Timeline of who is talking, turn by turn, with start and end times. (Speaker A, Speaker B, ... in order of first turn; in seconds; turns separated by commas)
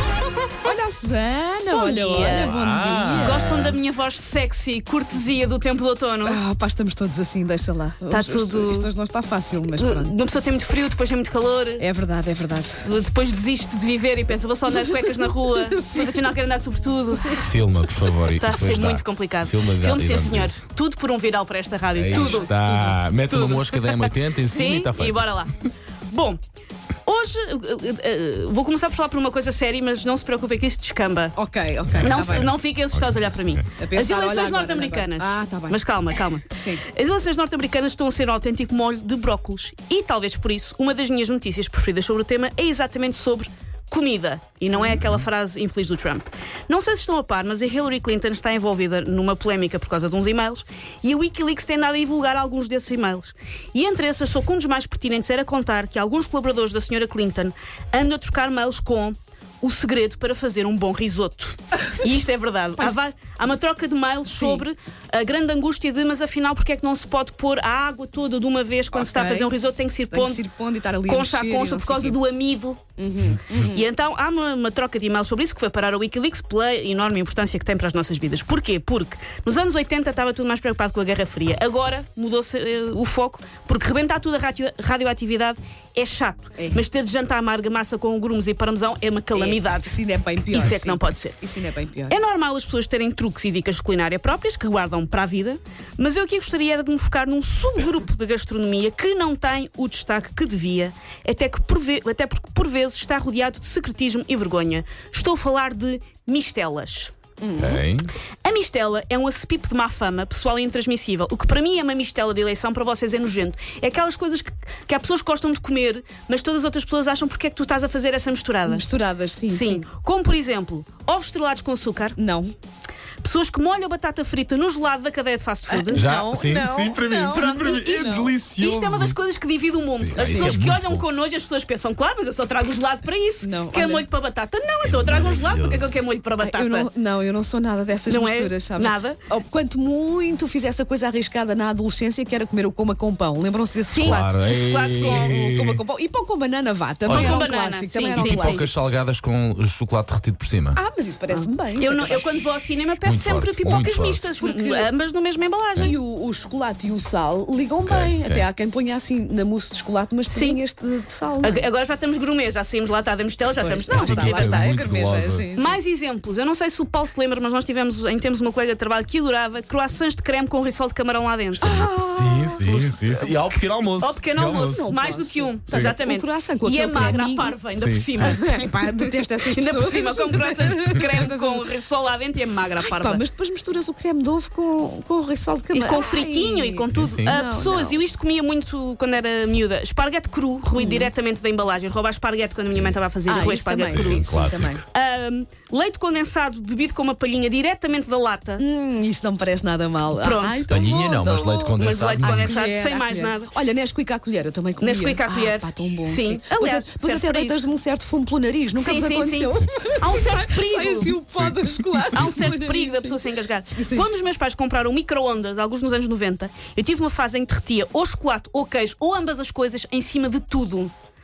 Speaker A: 0.6-3.6, Speaker B: 1.7-2.5, Speaker C: 2.2-3.8, Speaker B: 3.1-6.4, Speaker A: 6.2-10.1, Speaker B: 8.1-8.9, Speaker B: 9.8-11.8, Speaker A: 11.8-12.9, Speaker B: 12.8-17.5, Speaker A: 14.7-16.2, Speaker C: 17.4-20.6, Speaker B: 18.4-22.5, Speaker C: 21.9-25.3, Speaker A: 22.1-23.0, Speaker B: 23.3-25.5, Speaker A: 23.5-23.8, Speaker B: 26.1-26.4, Speaker B: 27.0-31.4, Speaker A: 31.4-32.5, Speaker C: 31.9-33.6, Speaker B: 32.0-70.4, Speaker A: 33.8-35.8, Speaker A: 36.5-36.8, Speaker A: 44.7-45.0, Speaker A: 64.3-64.6, Speaker A: 68.9-69.5, Speaker A: 70.1-72.2, Speaker B: 71.0-72.8, Speaker A: 73.0-73.9, Speaker B: 73.5-91.4, Speaker A: 86.6-86.8, Speaker A: 89.3-92.2, Speaker B: 92.1-107.1, Speaker A: 107.4-107.8, Speaker C: 107.5-108.1, Speaker B: 108.4-118.9, Speaker A: 118.7-119.8, Speaker B: 119.5-122.2, Speaker A: 122.2-122.5, Speaker B: 123.2-126.1, Speaker A: 125.7-128.3, Speaker C: 125.9-129.2, Speaker B: 127.3-136.9, Speaker C: 129.9-131.0, Speaker A: 130.2-130.6, Speaker A: 133.4-134.1, Speaker C: 134.8-136.0, Speaker A: 136.4-144.3, Speaker B: 138.1-139.2, Speaker B: 143.9-145.3, Speaker C: 144.0-145.8, Speaker A: 145.0-148.7, Speaker B: 147.1-148.6, Speaker C: 147.1-147.4, Speaker C: 148.1-150.8, Speaker A: 150.7-152.5, Speaker B: 151.3-155.9, Speaker C: 153.0-154.3, Speaker A: 154.4-154.9, Speaker A: 155.8-161.7, Speaker C: 157.8-158.4, Speaker B: 160.3-160.6, Speaker B: 161.4-164.8, Speaker A: 163.5-165.8, Speaker C: 163.9-165.4, Speaker B: 165.5-171.7, Speaker C: 171.6-174.9, Speaker A: 171.6-173.4, Speaker B: 174.0-183.2, Speaker A: 174.6-177.6, Speaker C: 175.7-175.9, Speaker C: 176.9-177.2, Speaker C: 177.7-178.4, Speaker A: 178.2-181.7, Speaker A: 182.8-188.0, Speaker B: 185.7-194.3, Speaker C: 186.9-187.4, Speaker A: 190.7-191.1, Speaker C: 192.7-193.0, Speaker A: 193.2-194.8, Speaker C: 193.9-194.8, Speaker B: 194.9-198.6, Speaker A: 198.6-201.7, Speaker B: 200.2-203.5, Speaker C: 200.7-202.6, Speaker A: 202.2-214.1, Speaker B: 204.8-207.7, Speaker B: 208.7-211.2, Speaker C: 211.3-212.5, Speaker B: 212.1-220.9